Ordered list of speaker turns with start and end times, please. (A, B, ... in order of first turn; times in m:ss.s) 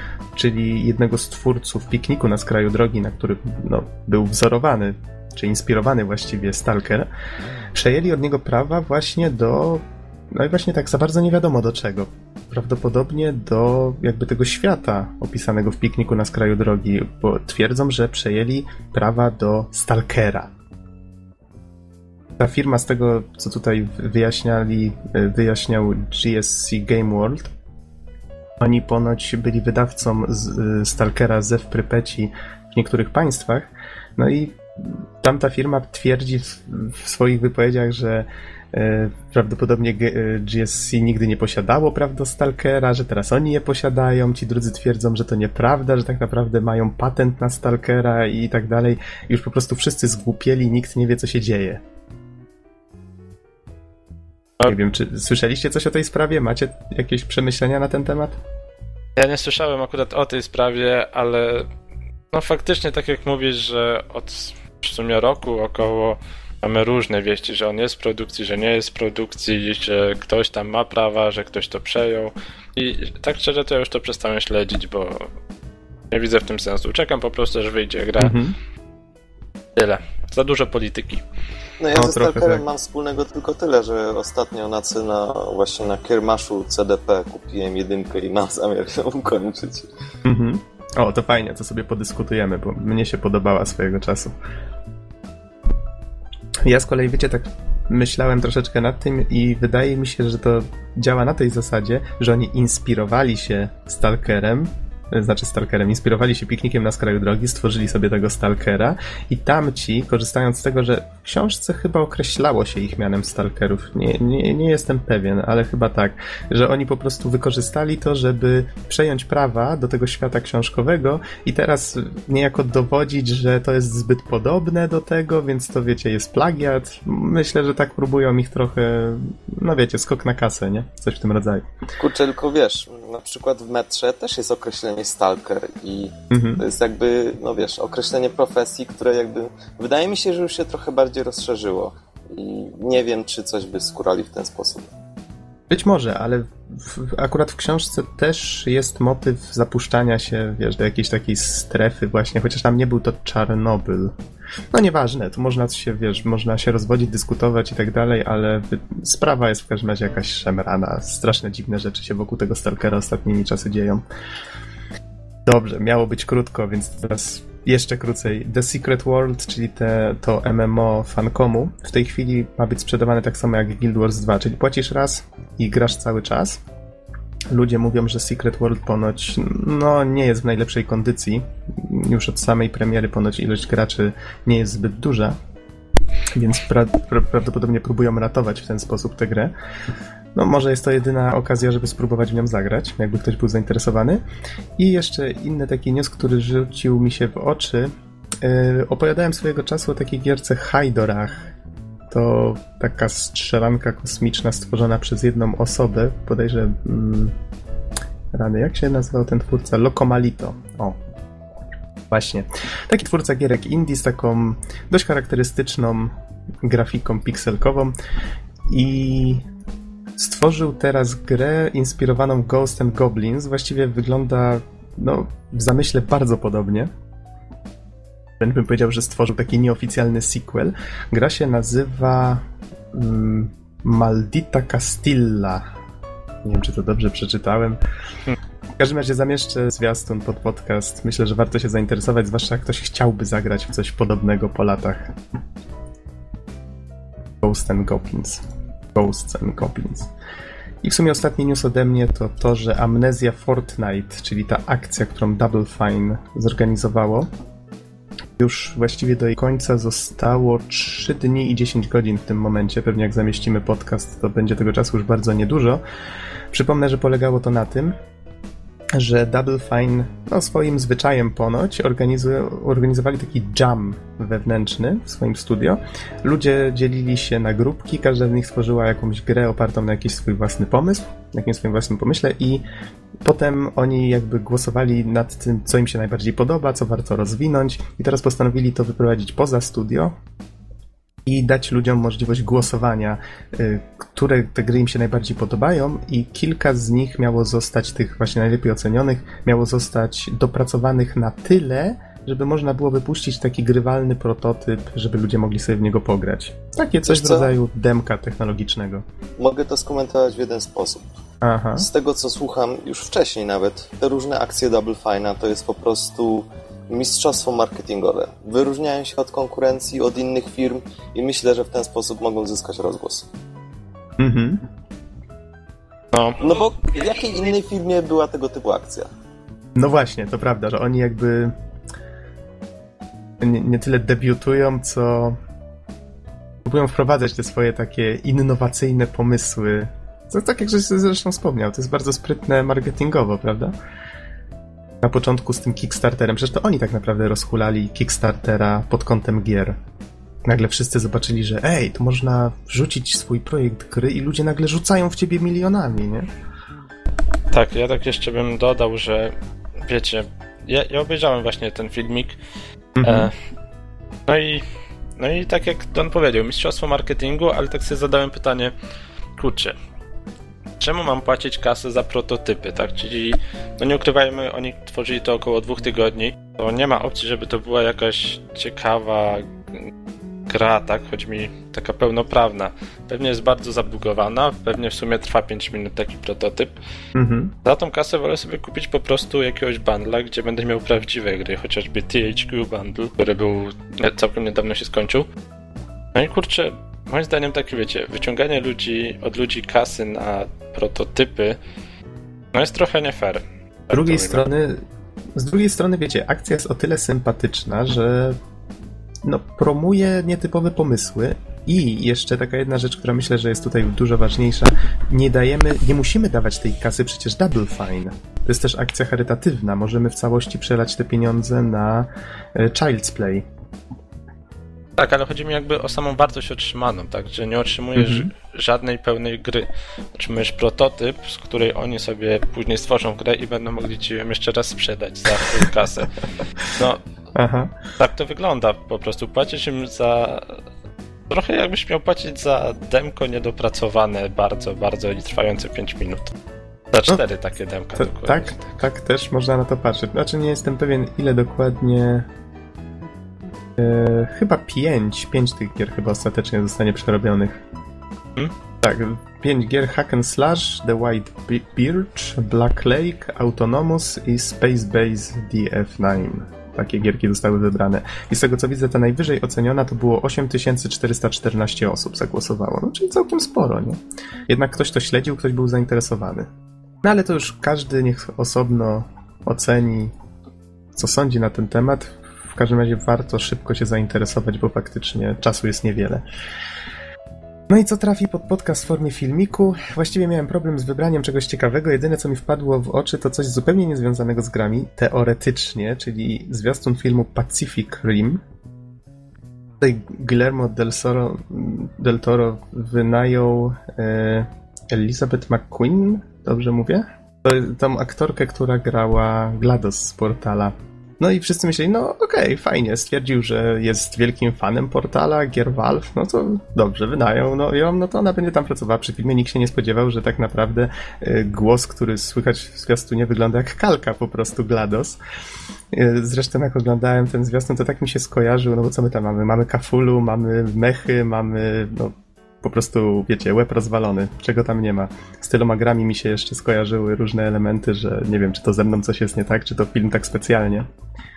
0:00.4-0:07.1 A
0:07.7-0:20.5 A
0:22.4-0:27.5 A
0:28.6-0:51.8 A
0:54.6-0:58.4 A
0:59.2-1:01.7 B
1:02.3-1:15.3 B
1:16.1-1:18.4 B
1:18.2-1:18.6 A
1:19.8-1:21.2 B
1:21.8-1:29.9 C
1:21.9-1:22.6 A
1:30.2-1:34.4 A
1:36.6-2:11.6 A
2:12.0-2:24.9 C
2:16.3-2:16.6 A
2:25.7-2:34.1 A
2:34.7-2:44.0 A
2:45.4-2:56.6 A
2:57.5-3:05.4 A
3:06.3-3:09.5 A
3:10.4-3:14.2 A
3:14.8-3:21.5 A
3:22.1-3:27.4 A
3:28.3-3:31.0 A
3:32.1-3:37.9 A
3:38.7-3:39.4 A
3:40.2-3:46.9 A
3:48.4-3:55.6 A
3:56.4-3:57.8 A
3:58.8-4:05.1 A
4:07.4-4:08.4 A
4:08.9-4:10.1 A
4:10.8-4:17.3 A
4:18.4-4:25.8 A
4:26.5-4:27.9 A
4:28.9-4:42.6 A
4:43.2-4:50.1 A
4:51.2-5:09.0 A
5:07.1-5:07.5 C
5:09.4-5:11.1 C
5:11.4-5:11.9 A
5:11.8-5:23.3 C
5:24.2-5:24.6 A
5:26.4-5:29.1 C
5:29.7-5:31.6 A
5:33.4-5:35.4 A
5:36.6-5:43.8 A
5:45.0-5:49.8 A
5:50.4-5:56.3 A
5:57.5-6:02.4 B
6:03.0-6:03.3 A
6:03.0-6:03.3 B
6:04.3-6:04.6 B
6:05.2-6:08.7 B
6:09.4-6:09.8 B
6:10.8-6:19.9 B
6:20.5-6:26.7 B
6:27.1-6:27.5 A
6:27.6-6:35.2 B
6:36.1-6:41.6 B
6:42.5-6:44.4 B
6:43.9-6:44.8 A
6:45.4-6:48.4 A
6:49.2-7:03.4 A
7:05.0-7:16.1 B
7:08.0-7:08.3 A
7:16.6-7:17.0 B
7:17.4-7:17.8 A
7:18.0-7:20.6 B
7:21.3-7:26.3 B
7:26.9-7:28.6 B
7:27.9-7:32.3 A
7:33.8-7:37.6 A
7:38.8-7:56.5 A
7:57.0-8:00.1 A
8:00.9-8:06.2 A
8:07.7-8:18.4 A
8:19.8-8:45.2 A
8:45.9-9:00.9 A